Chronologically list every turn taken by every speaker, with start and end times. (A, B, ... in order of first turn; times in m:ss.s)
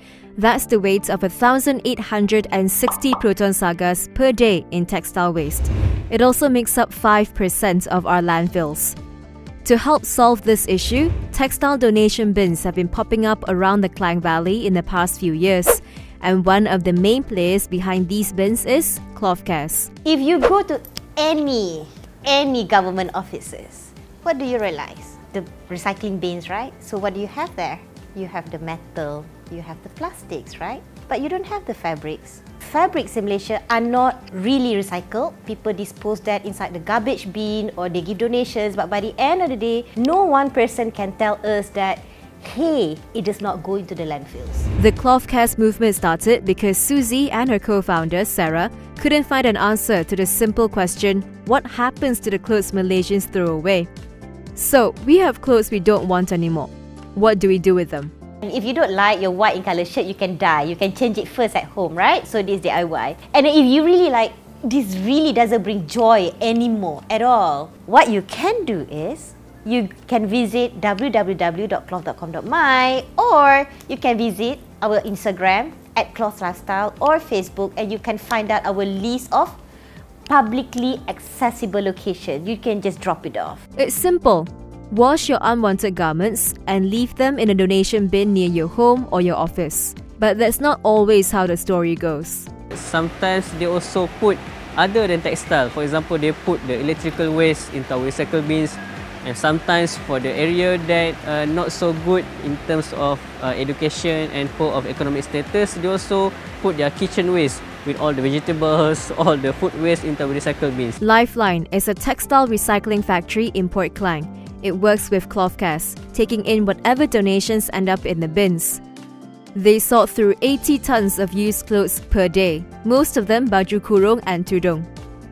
0:00.4-0:09.0 A
0:09.6-0:19.9 A
0:20.0-0:44.7 B
0:44.8-0:53.9 A
0:54.6-0:58.1 A
0:58.4-1:19.6 B
1:20.3-1:23.6 B
1:23.8-1:32.5 A
1:32.7-1:51.0 C
1:51.0-1:58.8 A
1:59.5-2:04.9 A